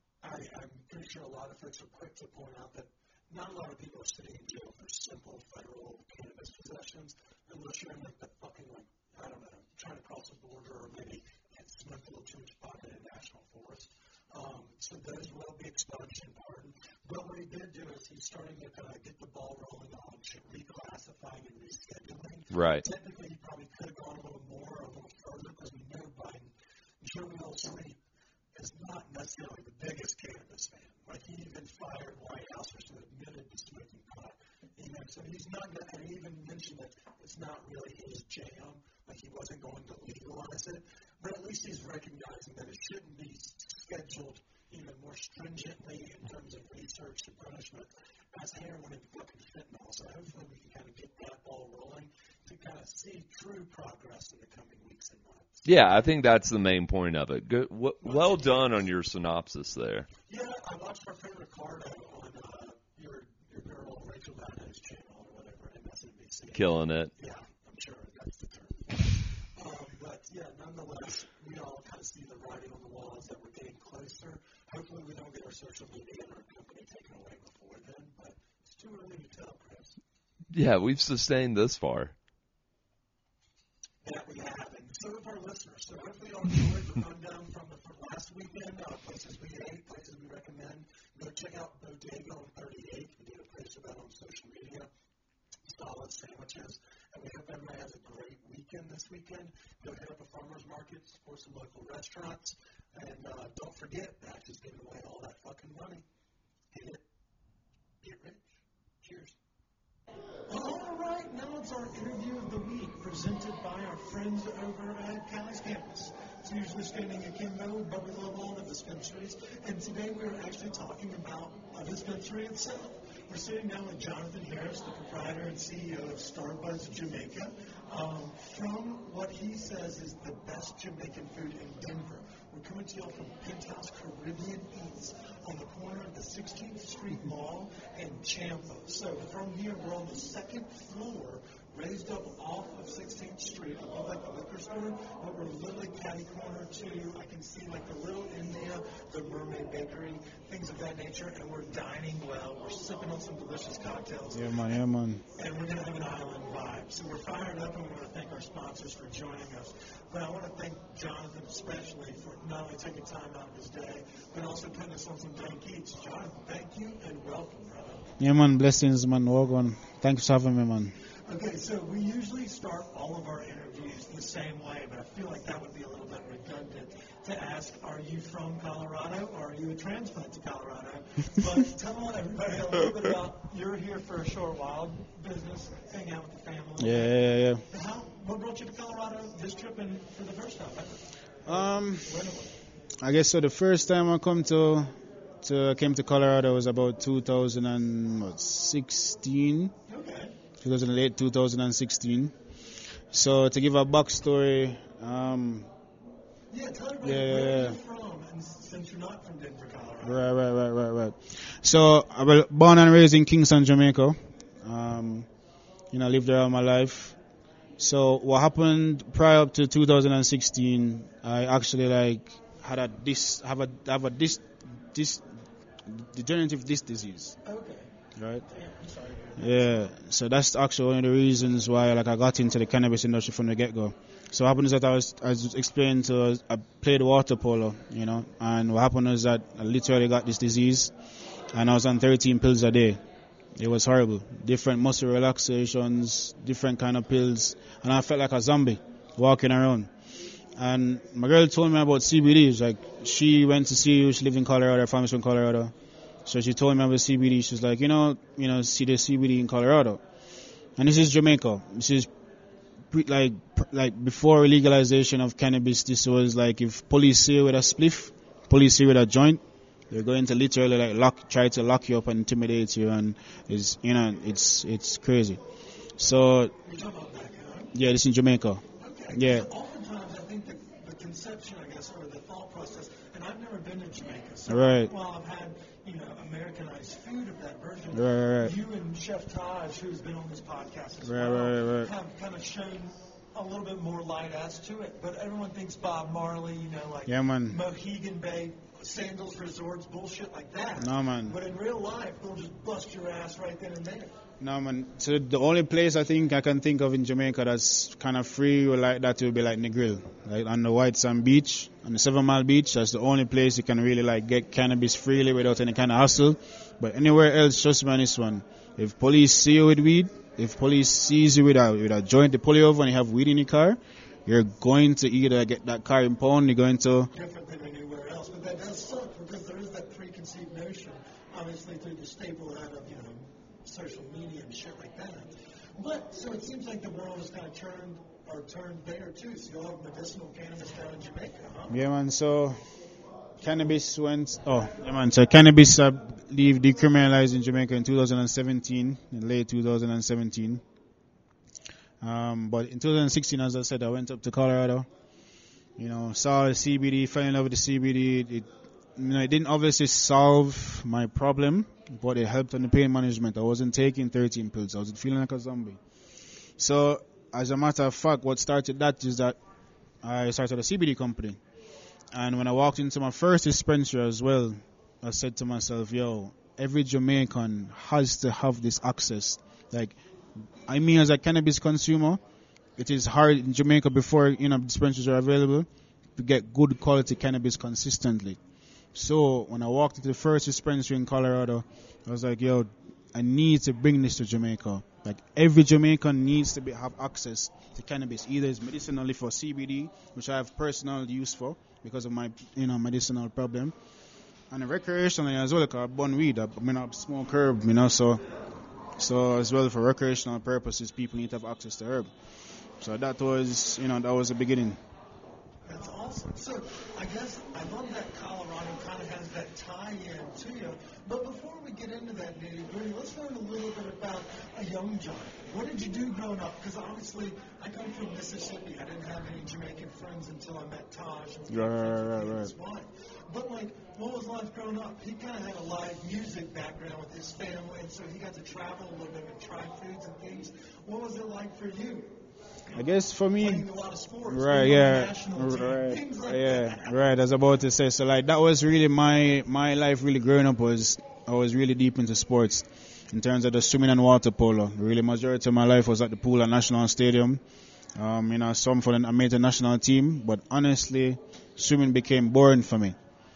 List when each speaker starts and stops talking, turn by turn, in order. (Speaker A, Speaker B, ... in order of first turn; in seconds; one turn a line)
Speaker A: 0.2-28.0
Speaker B: 22.5-22.8
Speaker A: 28.6-55.7
Speaker B: 55.6-60.1
Speaker A: 58.0-58.8
Speaker A: 60.3-80.0
Speaker B: 66.5-67.1
Speaker B: 80.5-82.1
Speaker A: 84.0-94.9
Speaker A: 95.7-106.0
Speaker A: 106.7-107.0
Speaker A: 108.0-109.4
Speaker A: 110.5-154.8
Speaker C: 154.3-155.2
Speaker A: 155.3-168.1
Speaker C: 168.2-170.9
Speaker A: 171.3-192.6
Speaker C: 186.8-187.6
Speaker C: 191.5-192.2
Speaker C: 193.0-199.7
Speaker A: 199.9-200.3
Speaker C: 200.6-202.3
Speaker C: 203.1-205.7
Speaker A: 206.5-210.2
Speaker C: 207.0-207.8
Speaker C: 210.0-215.3
Speaker C: 215.9-217.2
Speaker C: 217.8-225.3
Speaker C: 225.9-227.4
Speaker A: 227.4-227.9
Speaker C: 228.2-228.4
Speaker A: 228.5-229.9
Speaker C: 229.4-240.9
Speaker C: 241.5-243.0
Speaker C: 243.6-249.9
Speaker C: 250.6-255.7
Speaker C: 256.3-260.0
Speaker C: 260.8-262.1
Speaker C: 262.9-275.4
Speaker C: 276.0-276.5
Speaker A: 276.6-277.8
Speaker C: 277.7-279.5
Speaker A: 278.8-304.2
Speaker C: 284.5-284.9
Speaker C: 287.9-288.6
Speaker C: 291.0-291.9
Speaker C: 297.1-297.6
Speaker C: 300.8-301.4
Speaker C: 304.4-327.1
Speaker A: 327.1-341.8
Speaker C: 341.7-342.6
Speaker C: 343.4-350.6
Speaker C: 352.0-354.9
Speaker C: 355.8-365.8
Speaker C: 366.6-369.4
Speaker C: 370.0-371.4
Speaker C: 372.1-380.0
Speaker C: 380.7-382.2
Speaker C: 382.8-388.4
Speaker C: 388.9-403.8
Speaker C: 404.5-408.2
Speaker C: 409.0-412.1
Speaker C: 412.8-414.8
Speaker A: 415.7-442.1
Speaker C: 431.5-432.5
Speaker A: 442.7-447.2
Speaker C: 442.8-443.7
Speaker C: 444.3-457.4
Speaker C: 458.0-463.0